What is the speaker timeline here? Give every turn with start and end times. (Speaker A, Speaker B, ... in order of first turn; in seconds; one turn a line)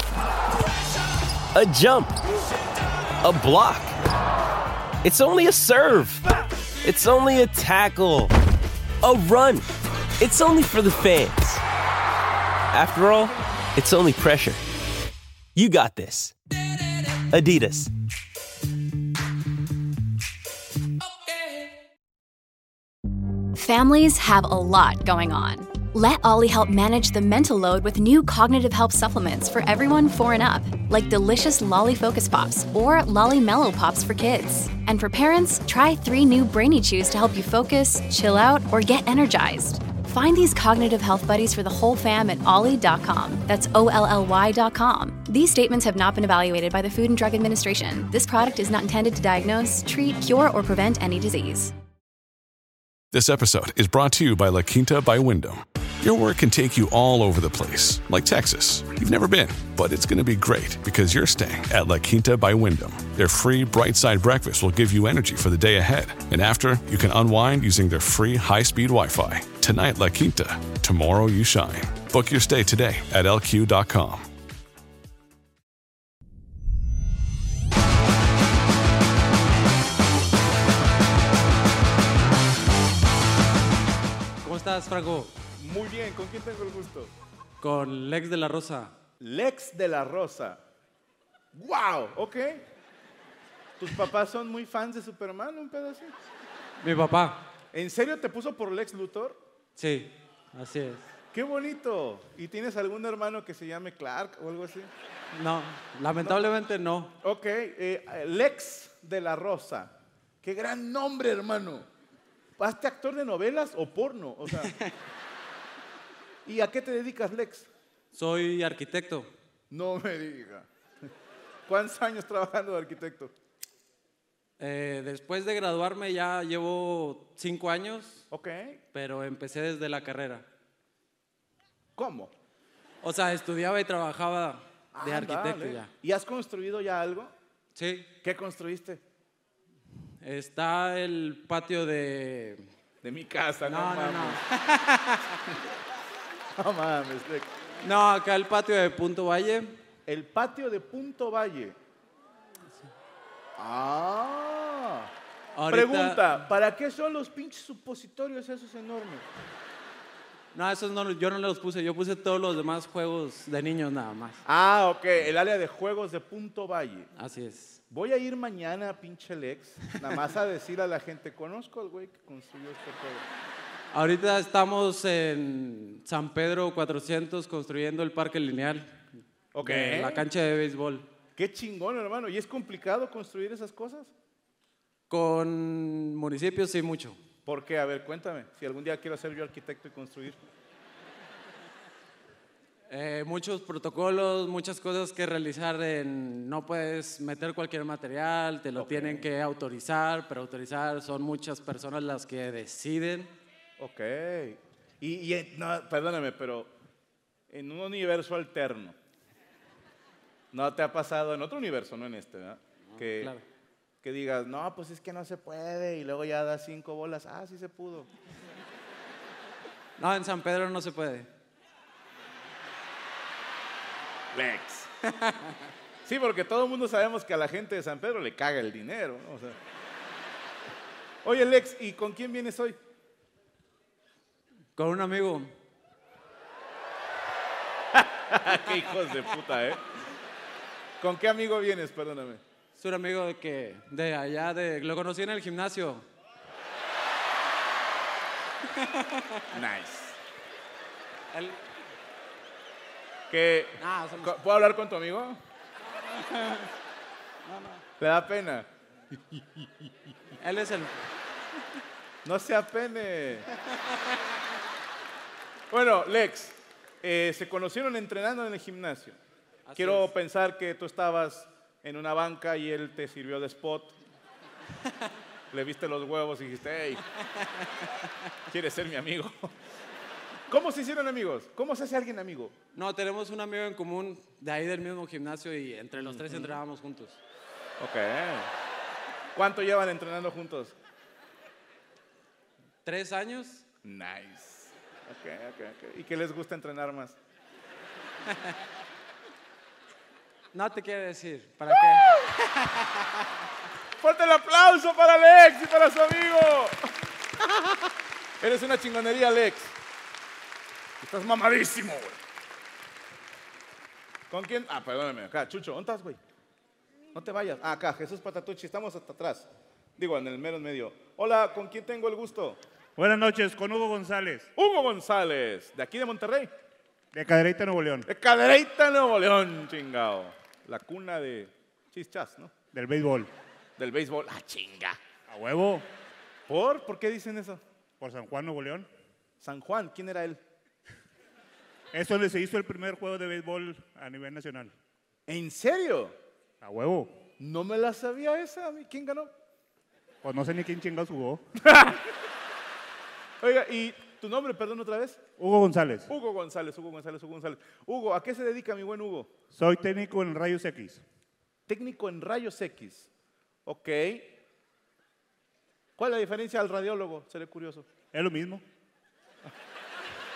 Speaker A: 1.5-2.2
Speaker A: 3.2-3.9
Speaker A: 5.0-6.2
Speaker A: 6.8-8.3
Speaker A: 9.0-9.7
Speaker A: 10.2-11.6
Speaker A: 12.7-14.6
Speaker A: 15.6-16.3
Speaker A: 17.3-17.9
Speaker B: 23.6-51.7
Speaker C: 53.1-74.3
Speaker D: 84.4-85.3
Speaker E: 85.6-87.1
Speaker D: 87.6-88.9
Speaker E: 89.2-90.6
Speaker E: 91.5-92.7
Speaker E: 93.8-96.2
Speaker D: 96.8-97.4
Speaker E: 97.7-99.4
Speaker D: 99.8-101.0
Speaker E: 101.3-104.9
Speaker D: 105.3-107.1
Speaker E: 106.2-106.5
Speaker E: 107.2-111.9
Speaker E: 112.6-114.7
Speaker E: 116.5-117.7
Speaker D: 118.1-119.3
Speaker E: 119.7-120.7
Speaker E: 121.7-123.3
Speaker D: 124.6-128.2
Speaker E: 128.3-128.8
Speaker D: 128.9-130.4
Speaker E: 131.9-132.3
Speaker D: 133.0-135.9
Speaker E: 134.9-137.3
Speaker D: 137.8-138.1
Speaker E: 138.2-139.0
Speaker D: 140.2-142.6
Speaker E: 143.0-144.4
Speaker D: 143.6-145.2
Speaker E: 146.5-147.5
Speaker D: 147.8-149.7
Speaker E: 150.1-151.8
Speaker E: 153.6-155.1
Speaker D: 155.6-156.3
Speaker E: 155.7-159.2
Speaker D: 160.5-164.4
Speaker E: 164.4-167.1
Speaker D: 167.2-167.8
Speaker E: 167.9-173.3
Speaker D: 173.9-178.9
Speaker E: 179.5-180.3
Speaker D: 179.6-181.1
Speaker E: 181.3-184.1
Speaker D: 185.1-187.2
Speaker E: 187.4-190.5
Speaker D: 192.9-203.3
Speaker E: 198.8-199.3
Speaker E: 203.8-206.7
Speaker E: 207.5-208.9
Speaker E: 210.5-213.3
Speaker D: 212.9-213.4
Speaker E: 214.0-218.1
Speaker D: 220.0-221.3
Speaker E: 224.3-224.9
Speaker E: 226.0-229.6
Speaker E: 231.2-232.8
Speaker D: 234.8-235.5
Speaker E: 237.9-239.8
Speaker E: 241.0-242.4
Speaker D: 242.8-246.1
Speaker D: 248.8-249.6
Speaker E: 249.5-250.2
Speaker D: 251.3-251.6
Speaker E: 253.3-255.4
Speaker D: 253.8-254.3
Speaker D: 256.1-256.7
Speaker D: 257.4-257.8
Speaker E: 258.0-258.7
Speaker D: 260.4-261.0
Speaker E: 262.2-263.5
Speaker E: 265.7-269.2
Speaker D: 269.7-270.1
Speaker E: 269.8-274.0
Speaker E: 275.5-277.0
Speaker E: 278.5-279.5
Speaker E: 280.5-282.5
Speaker D: 282.7-287.2
Speaker E: 286.0-286.6
Speaker E: 287.8-288.5
Speaker E: 289.3-290.8
Speaker D: 292.8-293.6
Speaker E: 293.8-297.2
Speaker D: 300.5-302.7
Speaker E: 304.0-306.8
Speaker E: 308.4-309.8
Speaker E: 311.0-312.2
Speaker E: 314.3-316.2
Speaker E: 317.1-322.6
Speaker F: 323.0-324.4
Speaker E: 324.6-326.5
Speaker F: 327.1-328.0
Speaker E: 328.1-332.5
Speaker F: 332.7-333.3
Speaker E: 333.8-335.0
Speaker F: 335.3-335.9
Speaker E: 336.5-337.6
Speaker F: 338.0-338.9
Speaker E: 339.4-340.4
Speaker F: 341.9-344.7
Speaker E: 345.3-346.2
Speaker F: 346.6-347.2
Speaker E: 347.4-349.3
Speaker F: 350.2-351.4
Speaker E: 351.7-352.0
Speaker E: 353.4-355.2
Speaker F: 355.4-356.0
Speaker E: 356.1-359.3
Speaker F: 359.6-361.0
Speaker E: 361.7-363.1
Speaker E: 363.7-364.4
Speaker E: 366.0-367.9
Speaker F: 368.1-368.6